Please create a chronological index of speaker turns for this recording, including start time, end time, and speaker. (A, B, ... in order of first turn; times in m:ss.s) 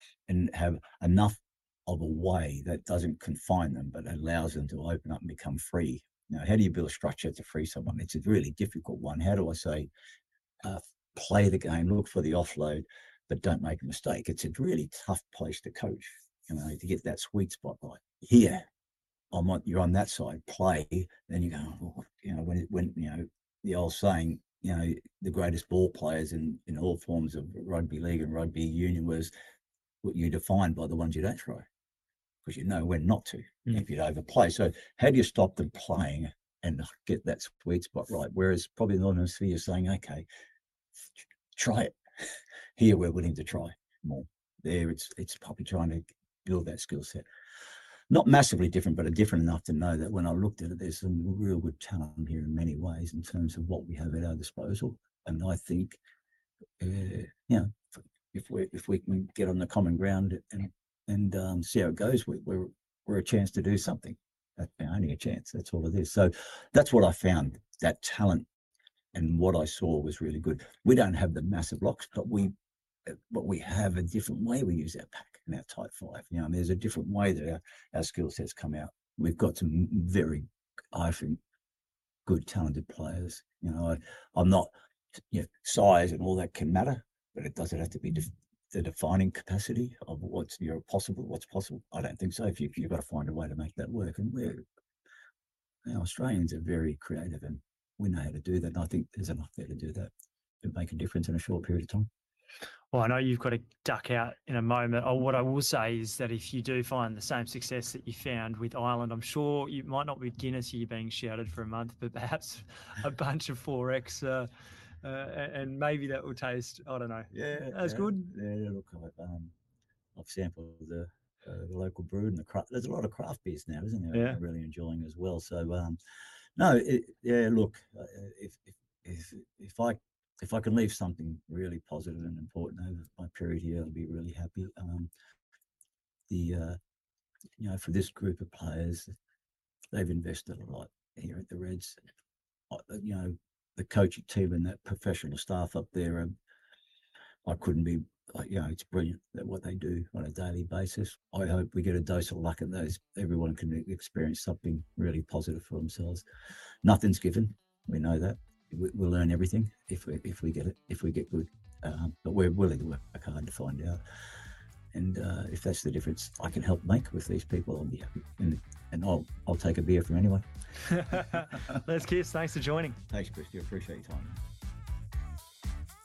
0:00.3-0:09.9 A
0:10.6-0:18.6 A
0:19.3-0:29.3 A
0:30.0-0:31.7 A
0:32.4-0:40.2 A
0:41.2-0:47.2 A
0:48.1-0:56.0 A
0:56.8-1:08.5 A
1:09.1-1:12.5 A
1:13.0-1:21.4 A
1:22.2-1:34.6 A
1:35.8-1:42.1 A
1:42.9-1:54.5 B
1:55.0-1:58.3 B
1:57.3-1:59.5 A
2:00.1-2:06.0 A
2:04.1-2:04.4 B
2:06.6-2:15.1 A
2:16.3-2:16.8 A
2:17.6-2:19.1 A
2:19.9-2:22.0 A
2:22.7-2:26.3 A
2:27.4-2:36.2 A
2:36.8-2:44.0 A
2:44.9-2:50.5 A
2:50.8-2:53.0 B
2:51.1-2:51.8 A
2:53.1-2:54.4 A